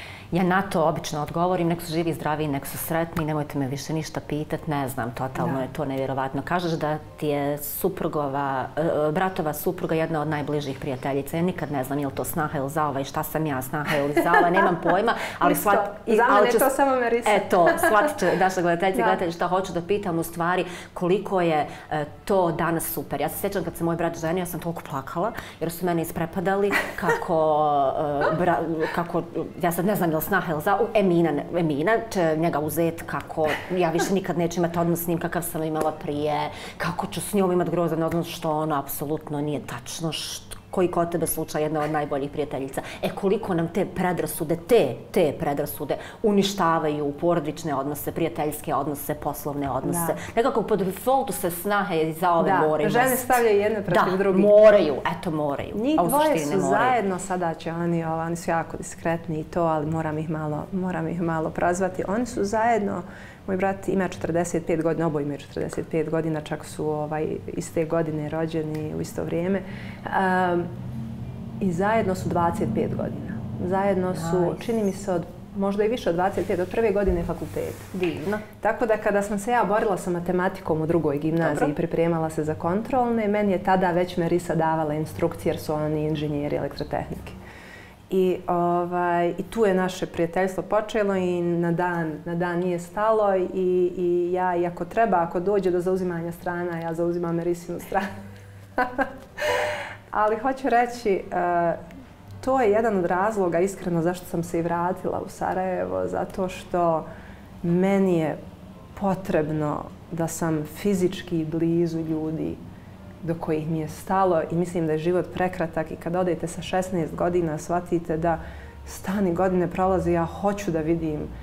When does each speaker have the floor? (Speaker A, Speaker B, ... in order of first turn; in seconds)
Speaker A: 0.3-16.7, 17.2-57.0, 74.2-74.6, 77.9-78.4, 81.4-81.7
Speaker B: 15.4-18.1, 49.8-50.2, 52.4-54.6, 55.7-70.7, 71.6-77.9, 78.6-87.4, 88.1-98.1, 98.8-101.8, 102.4-107.0, 107.6-108.4, 109.0-112.6, 113.2-121.3